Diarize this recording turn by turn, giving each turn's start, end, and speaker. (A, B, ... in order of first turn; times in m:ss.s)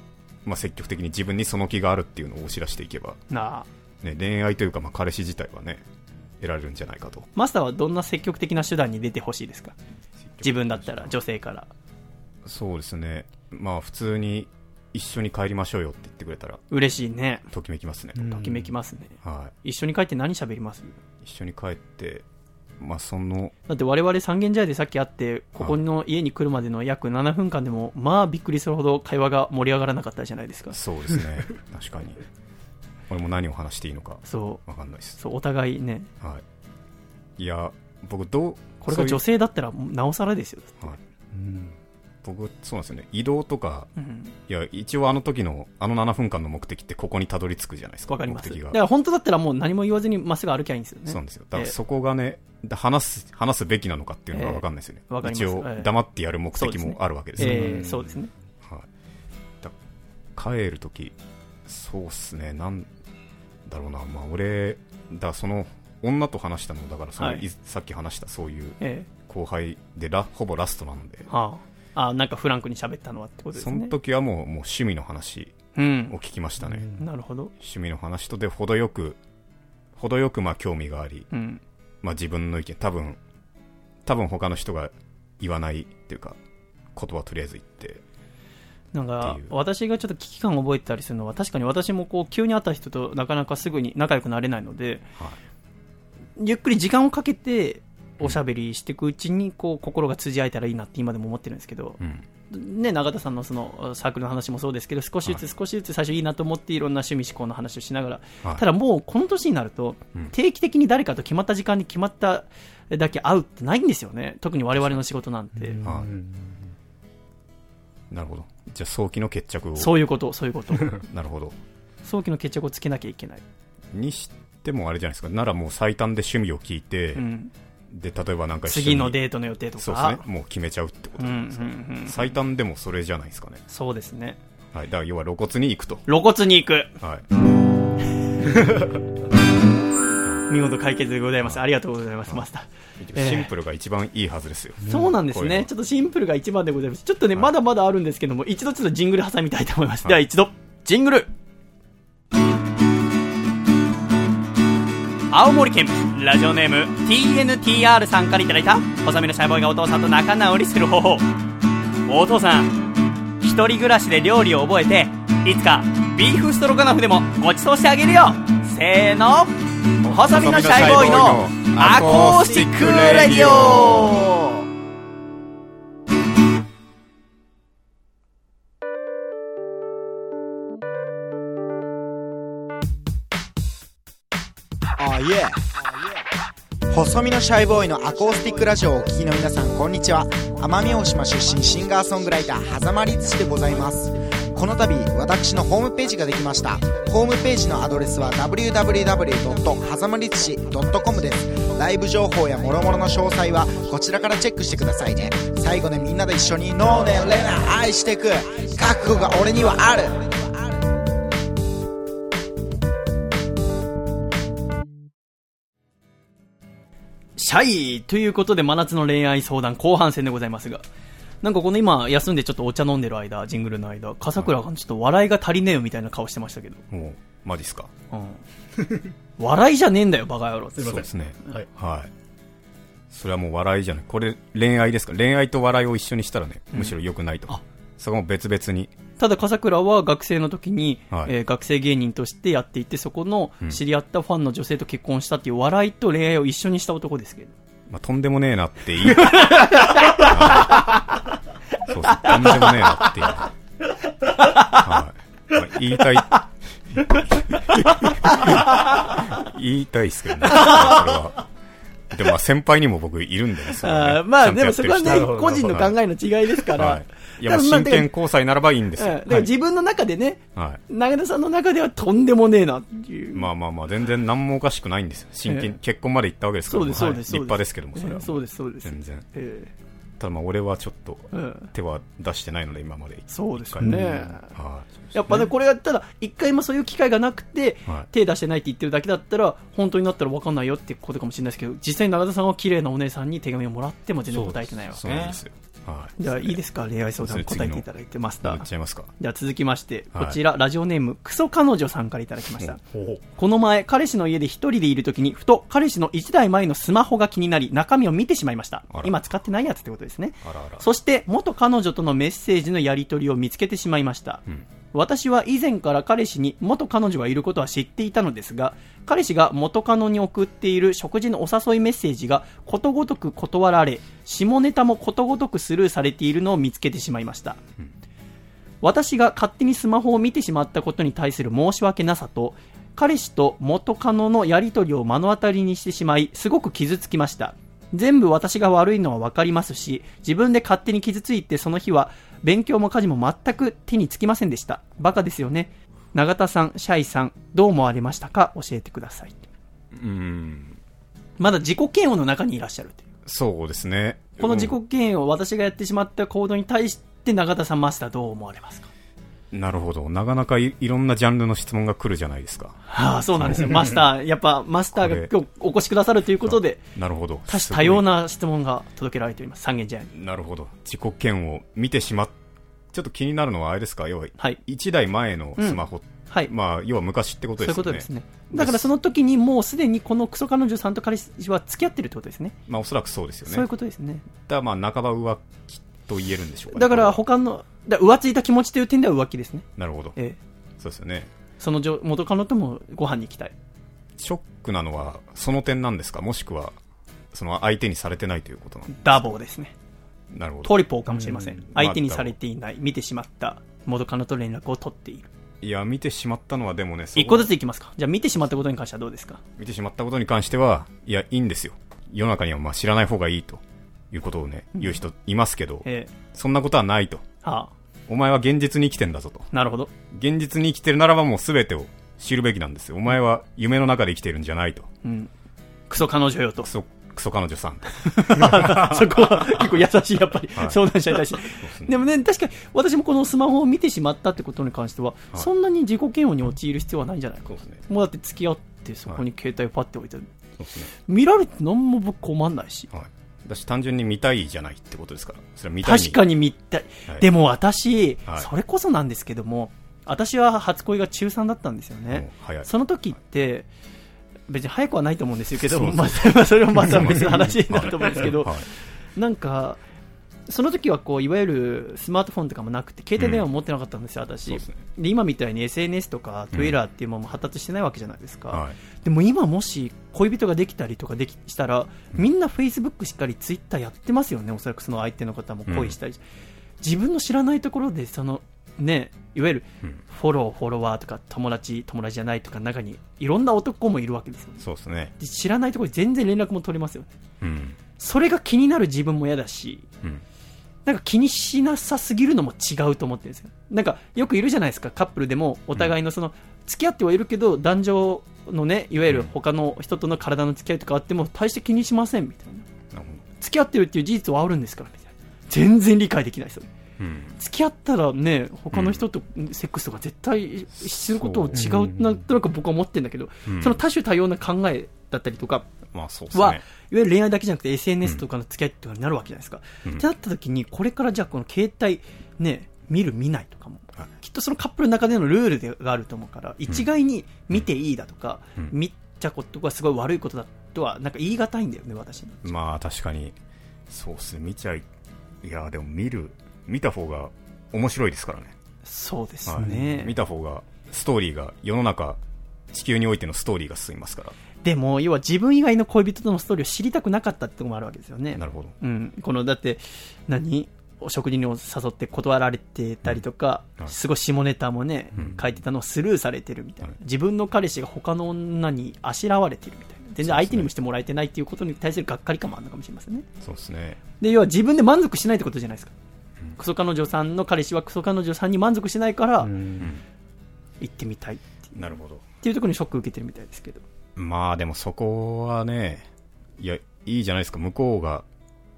0:00.4-0:03.2 A
0:03.3-0:03.7 B
0:04.0-0:05.8 A
0:06.4-0:07.3 A
0:07.4-0:09.8 B
0:10.3-0:11.2 A
0:10.4-0:11.7 B
0:12.4-0:16.6 A
0:16.7-0:17.5 B
0:17.5-0:18.5 A
0:18.2-0:18.7 C
0:18.3-0:21.0 B
0:19.2-0:19.6 A
0:21.2-0:22.2 A
0:22.8-0:23.5 A
0:23.7-0:30.8 B
0:30.7-0:32.2 A
0:33.1-0:35.2 A
0:34.3-0:34.6 B
0:35.2-0:36.1 B
0:37.4-0:39.2 A
0:38.8-0:41.0 B
0:41.3-0:41.7 C
0:42.2-0:43.9 A
0:44.0-0:44.3 B
0:44.5-0:48.8 A
0:48.1-0:51.8 B
0:51.1-0:57.9 A
0:54.3-0:55.9 B
0:56.6-0:58.3 B
0:57.4-0:58.1 C
0:58.6-0:58.9 A
1:00.4-1:01.2 A
1:01.7-1:02.9 A
1:03.7-1:11.3 A
1:07.2-1:07.4 B
1:08.8-1:09.1 B
1:11.3-1:13.9 B
1:13.6-1:15.6 A
1:15.8-1:16.2 B
1:16.1-1:16.9 A
1:16.7-1:17.0 C
1:17.0-1:17.5 B
1:17.6-1:19.2 A
1:20.0-1:21.3 A
1:21.3-1:21.6 B
1:22.0-1:23.2 A
1:24.0-1:26.4 A
1:27.0-1:28.0 A
1:28.9-1:35.0 B
1:29.2-1:29.5 A
1:36.4-1:55.8 B
1:42.0-1:42.2 A
1:55.6-1:56.5 C
1:55.8-1:56.1 A
1:58.1-2:00.0 A
1:59.8-2:01.0 B
2:00.9-2:01.6 A
2:02.0-2:03.4 B
2:03.9-2:07.2 A
2:07.2-2:07.5 B
2:07.9-2:09.2 A
2:08.7-2:10.2 B
2:09.8-2:13.6 A
2:11.2-2:12.3 B
2:13.7-2:14.4 B
2:14.7-2:16.1 A
2:16.1-2:16.9 B
2:17.0-2:17.3 A
2:20.5-2:23.5 B
2:23.0-2:25.7 A
2:24.9-2:31.3 B
2:35.3-2:41.3 B
2:42.1-2:42.8 B
2:43.4-2:54.6 B
2:50.3-2:54.2 A
3:05.0-3:05.7 D
3:06.9-3:30.4 D
3:37.4-3:40.8 B
3:41.4-3:46.8 B
3:46.9-3:47.9 A
3:48.1-3:48.4 B
3:49.4-3:51.0 B
3:50.8-3:51.6 C
3:50.8-3:52.1 A
3:53.1-3:58.9 A
3:59.2-4:07.5 B
4:07.9-4:10.9 A
4:09.2-4:10.9 B
4:11.9-4:13.5 A
4:12.3-4:12.5 B
4:14.4-4:14.8 B
4:14.7-4:21.4 A
4:17.7-4:19.2 B
4:20.5-4:21.0 B
4:22.1-4:25.9 A
4:23.8-4:28.1 B
4:25.0-4:25.8 C
4:26.7-4:29.5 A
4:29.0-4:33.5 B
4:30.6-4:30.8 A
4:33.3-4:39.3 A
4:35.5-4:35.7 B
4:36.7-4:39.7 B
4:40.2-4:44.9 A
4:41.3-4:41.7 B
4:43.3-4:44.5 B
4:43.8-4:44.2 C
4:45.1-4:55.0 B
4:54.3-4:55.4 C
4:55.0-4:56.6 A
4:56.2-4:58.7 B
4:57.2-4:57.9 A
4:58.4-4:59.1 A
4:59.2-5:02.8 B
5:02.9-5:03.2 C
5:03.4-5:27.6 B
5:10.4-5:10.8 A
5:28.8-5:49.4 B
5:49.9-5:50.8 A
5:51.4-5:53.1 B
5:53.3-5:54.8 A
5:54.4-5:58.9 B
5:59.5-6:02.8 A
6:02.9-6:06.8 B
6:03.4-6:03.8 A
6:05.0-6:05.3 A
6:06.4-6:08.0 A
6:07.5-6:10.1 B
6:10.1-6:12.3 A
6:12.9-6:18.9 A
6:15.6-6:16.5 B
6:17.6-6:22.6 B
6:22.7-6:23.7 A
6:23.5-6:24.2 B
6:24.4-6:27.2 A
6:26.7-6:29.6 B
6:29.8-6:30.2 A
6:30.8-6:31.3 A
6:31.6-6:33.5 B
6:34.2-6:36.8 A
6:37.3-6:39.4 A
6:38.9-6:39.7 B
6:40.3-6:40.8 A
6:40.6-6:45.3 B
6:41.1-6:41.6 C
6:41.6-6:42.4 A
6:45.6-6:47.5 A
6:47.2-6:49.4 B
6:49.6-6:57.2 A
6:55.8-6:56.1 B
6:57.4-6:57.7 B
6:58.1-6:59.5 A
6:59.5-6:59.9 B
7:00.1-7:04.9 A
7:05.0-7:05.3 B
7:05.9-7:06.7 B
7:06.6-7:09.2 A
7:08.0-7:20.3 B
7:10.5-7:10.8 A
7:11.6-7:12.0 A
7:17.5-7:17.8 A
7:20.6-7:20.9 A
7:21.1-7:22.9 B
7:22.9-7:26.2 A
7:25.8-7:33.7 B
7:32.1-7:32.7 A
7:34.5-7:39.8 B
7:35.6-7:38.7 A
7:40.5-7:56.2 B
7:43.2-7:43.5 A
7:44.5-7:44.8 A
7:48.5-7:48.8 A
7:55.7-7:56.0 A
7:56.8-8:04.6 B
8:04.6-8:05.1 A
8:05.2-8:07.1 B
8:07.4-8:07.8 A
8:08.0-8:09.9 B
8:10.9-8:22.7 B
8:22.9-8:23.2 A
8:23.4-8:26.7 B
8:27.0-8:27.4 A
8:27.4-8:35.7 B
8:28.7-8:29.0 A
8:30.8-8:31.7 A
8:31.6-8:32.2 C
8:33.5-8:33.8 A
8:35.9-8:36.6 A
8:36.3-8:52.4 B
8:52.4-8:53.4 A
8:53.9-8:54.8 A
8:55.4-8:58.5 A
8:58.8-9:00.2 B
8:59.5-9:02.2 A
9:02.7-9:04.4 A
9:04.6-9:23.3 B
9:08.4-9:08.8 A
9:15.2-9:15.4 A
9:20.2-9:20.7 A
9:23.4-9:24.0 A
9:24.2-9:25.9 B
9:26.6-9:29.5 B
9:29.4-9:29.9 C
9:30.8-9:31.7 B
9:31.8-9:32.2 A
9:32.4-9:33.8 B
9:34.2-9:36.1 A
9:36.6-9:38.2 A